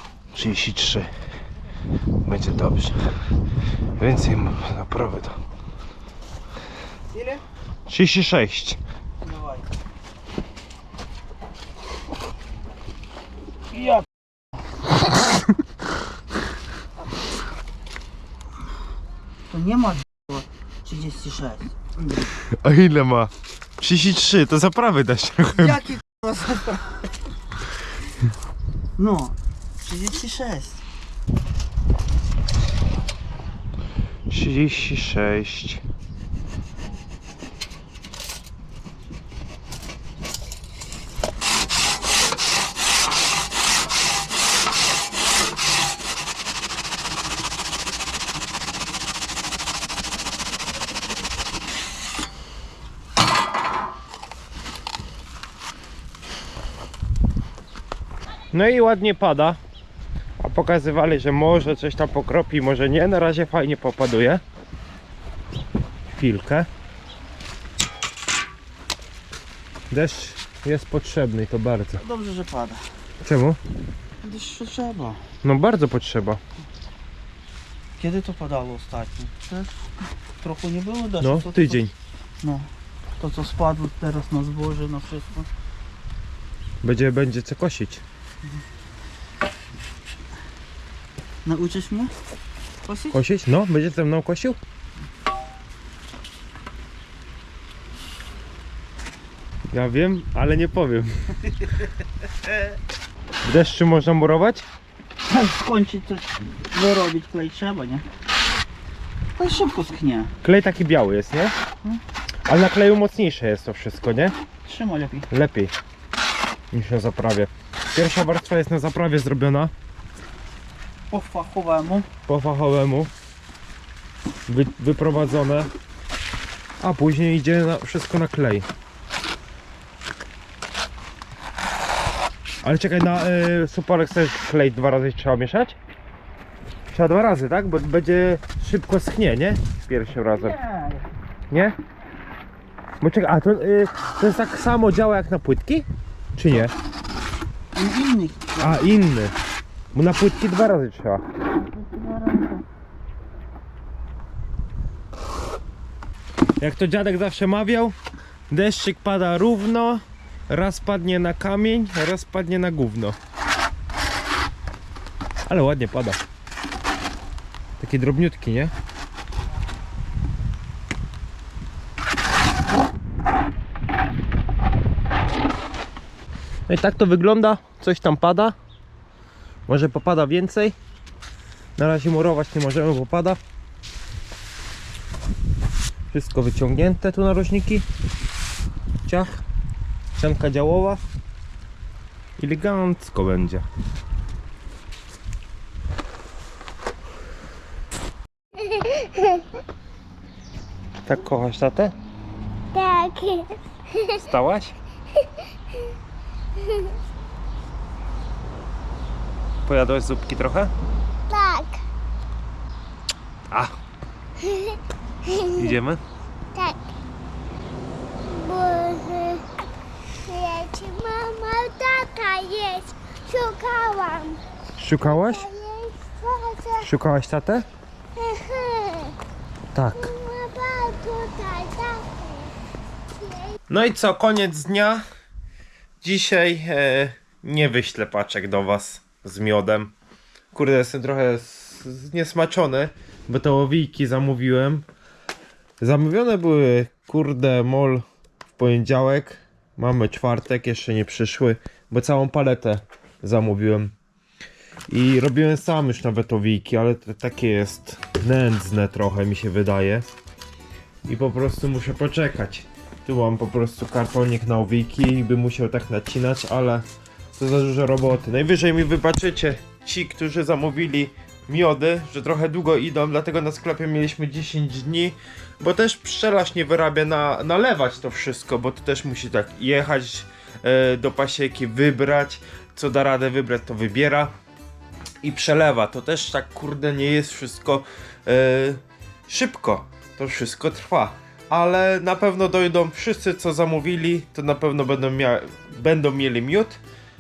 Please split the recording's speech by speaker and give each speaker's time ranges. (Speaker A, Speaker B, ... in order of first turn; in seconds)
Speaker A: 0.3-1.1, 2.2-3.0, 4.0-5.4, 7.9-8.8, 22.6-25.8, 34.3-35.8, 58.5-59.6, 60.4-64.4, 66.1-66.7, 69.9-72.0, 73.2-73.6, 75.4-76.4, 81.2-81.9, 86.8-88.0, 93.1-94.6, 99.7-101.1, 103.4-104.7, 110.4-111.5, 112.5-114.3, 115.3-115.7, 116.7-119.7, 122.3-123.1, 124.5-125.7, 126.8-128.7, 132.6-135.8, 136.9-140.6, 141.5-141.8, 143.0-146.7, 148.6-149.3, 149.9-151.2, 156.6-157.9, 158.5-163.2, 165.5-166.2, 167.8-168.7, 176.7-178.6, 179.7-180.8, 181.8-183.4, 186.1-187.8, 189.1-189.4, 190.2-191.0, 192.4-193.6, 201.1-201.9, 204.2-204.8, 209.7-210.7, 213.5-213.7, 215.5-216.0, 224.8-225.5, 226.8-227.7, 229.7-230.1, 233.7-235.0, 236.0-239.9, 240.5-244.8, 245.8-248.0, 248.6-253.9, 254.9-260.1, 261.0-284.3, 285.2-296.8
Speaker B: 7.1-7.4, 9.2-9.7, 13.7-14.1, 19.5-22.3, 25.6-27.1, 29.0-30.8, 72.0-72.8, 74.2-75.2, 78.0-79.7, 80.4-81.8, 82.4-82.7, 83.2-85.5, 91.4-92.1, 92.8-93.2, 105.3-108.0, 109.3-110.3, 114.6-115.3, 121.1-122.1, 140.3-141.1, 147.7-148.8, 151.6-152.6
Speaker C: 198.7-199.4, 202.7-204.2, 211.3-211.8, 214.4-215.8, 218.2-219.4, 220.2-224.4, 225.0-226.9, 228.2-229.2, 229.9-232.5, 233.2-233.5